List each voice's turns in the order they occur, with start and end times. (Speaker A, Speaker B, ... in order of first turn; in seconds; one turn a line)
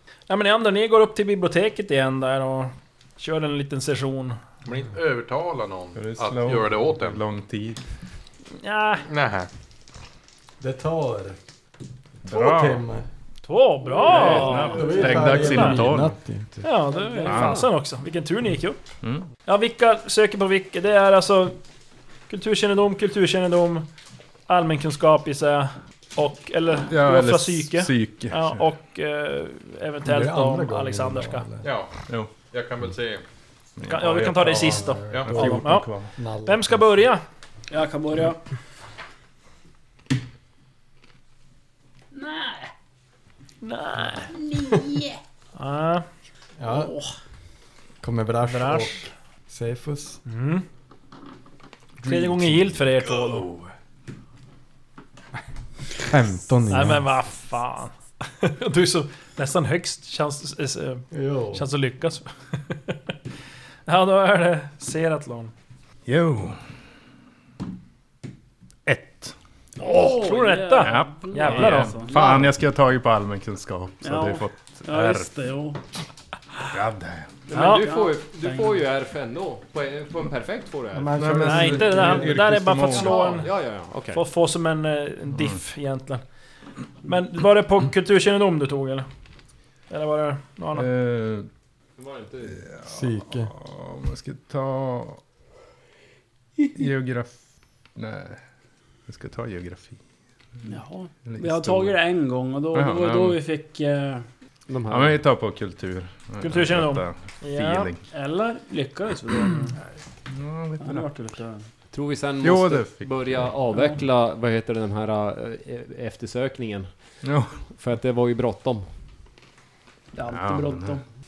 Speaker A: 0.3-4.4
Speaker B: 4.6-7.2
Speaker C: 5.9-7.8
Speaker A: 8.6-9.1
Speaker B: 9.1-9.5
Speaker D: 10.6-11.4
Speaker D: 12.2-13.1
Speaker C: 12.3-12.8
Speaker A: 13.4-15.8
Speaker E: 14.1-14.5
Speaker C: 14.1-16.1
Speaker D: 14.2-16.7
Speaker A: 16.6-18.8
Speaker F: 16.9-17.4
Speaker C: 17.2-17.6
Speaker E: 17.3-17.7
Speaker A: 19.4-21.6
Speaker A: 22.3-23.9
Speaker A: 24.5-31.4
Speaker C: 26.9-28.6
Speaker D: 30.0-31.7
Speaker B: 31.6-33.2
Speaker C: 32.1-32.4
Speaker C: 33.8-36.1
Speaker A: 33.9-37.2
Speaker D: 34.4-37.0
Speaker B: 35.1-35.5
Speaker F: 37.7-38.5
Speaker F: 42.1-42.7
Speaker A: 43.6-44.3
Speaker F: 44.3-45.2
Speaker A: 45.5-46.0
Speaker D: 46.6-46.9
Speaker F: 46.6-47.1
Speaker D: 48.0-50.2
Speaker A: 48.5-49.1
Speaker A: 50.2-50.6
Speaker D: 52.0-52.5
Speaker A: 52.0-53.5
Speaker C: 53.2-53.7
Speaker D: 56.0-57.1
Speaker A: 56.7-63.1
Speaker D: 61.1-61.6
Speaker A: 63.9-65.5
Speaker C: 66.0-66.6
Speaker C: 68.8-69.3
Speaker A: 69.8-72.1
Speaker F: 69.8-72.5
Speaker C: 70.8-75.3
Speaker F: 74.0-75.8
Speaker C: 76.7-77.4
Speaker E: 77.5-81.1
Speaker A: 77.5-77.9
Speaker F: 77.6-78.7
Speaker D: 80.9-82.5
Speaker C: 81.2-83.4
Speaker A: 81.4-86.2
Speaker E: 83.4-84.2
Speaker A: 87.0-89.1
Speaker A: 89.9-90.9
Speaker C: 90.7-91.5
Speaker E: 92.0-92.6
Speaker C: 92.5-95.2
Speaker D: 92.8-93.5
Speaker C: 96.7-97.3
Speaker C: 97.9-98.4
Speaker C: 99.1-100.0
Speaker F: 100.6-104.2
Speaker C: 101.2-102.0
Speaker C: 102.7-103.4
Speaker E: 104.7-105.2
Speaker C: 104.9-108.0
Speaker A: 106.4-107.9
Speaker F: 108.1-109.8
Speaker C: 110.3-111.1
Speaker F: 110.8-111.6
Speaker E: 111.9-116.9
Speaker C: 112.4-113.5
Speaker C: 117.2-117.6
Speaker E: 117.7-118.8
Speaker F: 120.1-121.0
Speaker C: 120.3-121.0